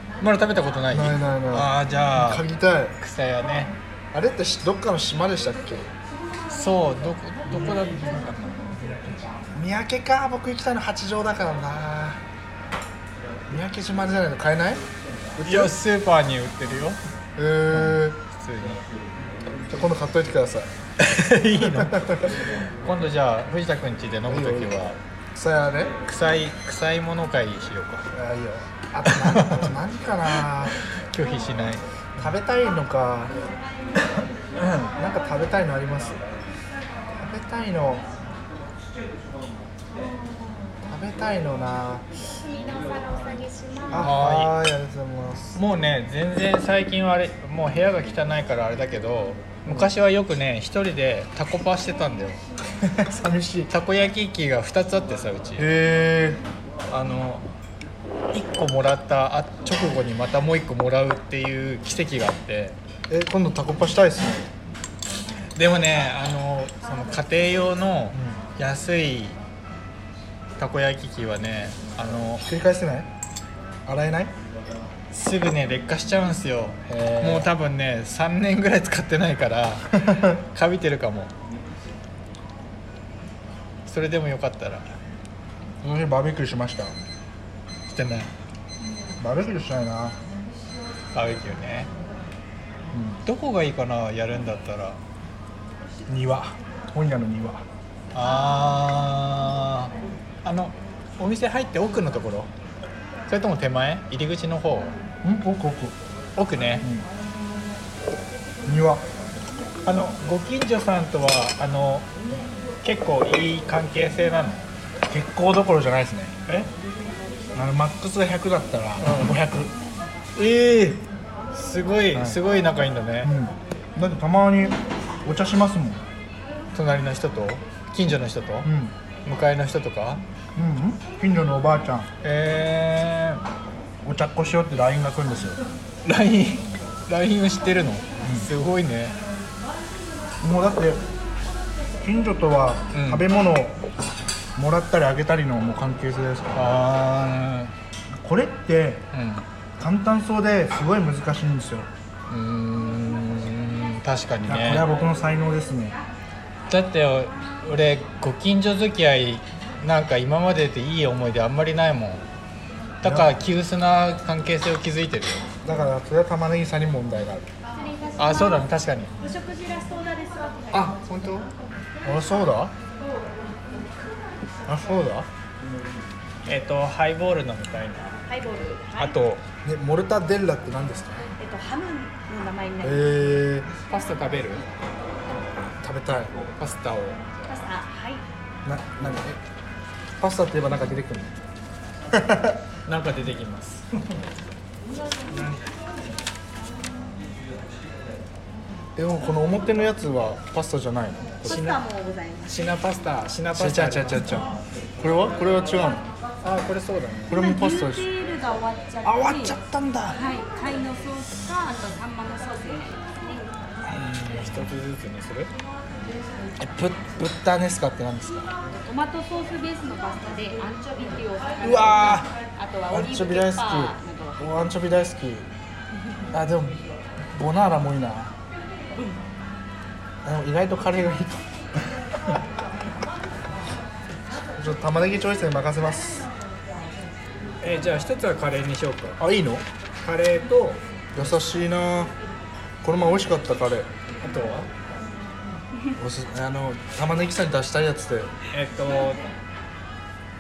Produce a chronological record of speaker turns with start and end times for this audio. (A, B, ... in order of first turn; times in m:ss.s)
0:00.2-0:02.4 A
0:00.9-0:03.0 B
0:03.0-0:03.7 A
0:04.1-0:05.9 B
0:06.5-0:09.3 A
0:09.5-0:12.2 B
0:13.5-0:14.8 B
0:15.4-0:15.8 B
0:15.4-0:17.0 A
0:17.4-0:18.2 B
0:17.7-0:18.8 A
0:19.7-0:20.7 B
0:21.0-0:22.3 A
0:21.6-0:22.4 B
0:22.8-0:25.0 A
0:24.3-0:26.0 B
0:26.0-0:28.1 A
0:28.1-0:30.8 B
0:29.0-0:29.7 A
0:30.9-0:31.8 A
0:32.2-0:33.4 B
0:34.6-0:34.9 A
0:34.9-0:36.2 B
0:37.2-0:38.0 B
0:40.0-0:40.6 C
0:40.9-0:42.1 B
0:42.2-0:44.1 C
0:43.9-0:45.6 B
0:44.0-0:44.6 A
0:45.6-0:52.4 A
0:52.8-0:53.7 B
0:53.7-0:55.7 A
0:55.6-0:56.4 B
0:56.9-0:57.5 A
0:58.3-1:02.8 A
1:03.1-1:04.5 B
1:05.6-1:09.4 A
1:08.1-1:08.4 B
1:10.6-1:12.4 A
1:12.4-1:13.1 B
1:13.9-1:14.3 B
1:15.1-1:21.3 A
1:16.9-1:17.5 B
1:23.9-1:24.9 A
1:25.8-1:27.0 B
1:27.9-1:28.3 A
1:29.2-1:30.2 B
1:31.1-1:31.9 A
1:32.9-1:33.2 B
1:33.2-1:35.0 A
1:36.1-1:37.6 B
1:38.1-1:39.9 A
1:40.4-1:42.5 A
1:43.3-1:45.0 A
1:45.2-1:46.0 B
1:46.4-1:46.9 A
1:46.8-1:47.1 B
1:48.6-1:49.1 B
1:49.8-1:52.1 A
1:52.8-1:54.6 A
1:55.1-1:56.4 B
1:57.5-1:59.7 B
1:59.0-1:59.3 A
2:00.4-2:03.3 A
2:02.1-2:02.4 B
2:03.2-2:06.0 B
2:06.7-2:08.7 A
2:08.6-2:09.0 B
2:09.2-2:10.2 A
2:10.6-2:12.1 B
2:12.2-2:13.4 A
2:14.0-2:15.6 B
2:16.0-2:19.2 A
2:18.2-2:18.5 B
2:20.4-2:21.0 B
2:22.0-2:23.8 B
2:22.9-2:23.2 A
2:24.6-2:26.8 B
2:26.6-2:27.7 A
2:28.2-2:29.1 B
2:29.1-2:29.5 A
2:29.8-2:31.9 B
2:32.3-2:34.9 A
2:34.4-2:36.0 B
2:36.7-2:42.2 A
2:43.0-2:45.5 A
2:43.0-2:43.4 B
2:45.6-2:47.5 B
2:47.7-2:51.0 C
2:48.2-2:49.1 A
2:50.7-2:51.5 A
2:52.0-2:52.7 B
2:54.7-2:55.3 B
2:56.4-2:58.2 A
2:58.3-2:59.2 C
2:59.0-2:59.4 A
2:59.6-3:01.3 B
3:01.4-3:03.2 C
3:02.8-3:03.7 B
3:03.9-3:04.6 A
3:05.8-3:06.4 B
3:06.6-3:07.3 A
3:07.5-3:08.2 C
3:08.6-3:09.4 B
3:10.2-3:11.4 B
3:12.1-3:12.6 B
3:12.9-3:13.9 A
3:15.3-3:15.8 A
3:19.0-3:21.8 B
3:21.4-3:22.8 C
3:22.5-3:24.5 A
3:23.6-3:26.1 B
3:26.4-3:27.4 A
3:27.3-3:28.1 B
3:27.3-3:29.6 C
3:29.0-3:30.2 B
3:30.1-3:33.5 C
3:33.8-3:34.7 B
3:33.9-3:35.5 A
3:36.6-3:38.5 B
3:38.7-3:44.5 C
3:41.6-3:42.3 B
3:42.9-3:45.5 B
3:46.3-3:46.8 B
3:47.4-3:48.3 B
3:49.0-3:49.2 C
3:50.2-3:51.5 B
3:54.6-3:56.3 B
3:57.6-3:59.2 A
3:59.2-3:59.6 B
4:00.0-4:00.8 A
4:01.1-4:02.1 B
4:02.8-4:03.9 B
4:04.2-4:04.7 A
4:06.0-4:08.3 B
4:08.5-4:09.3 A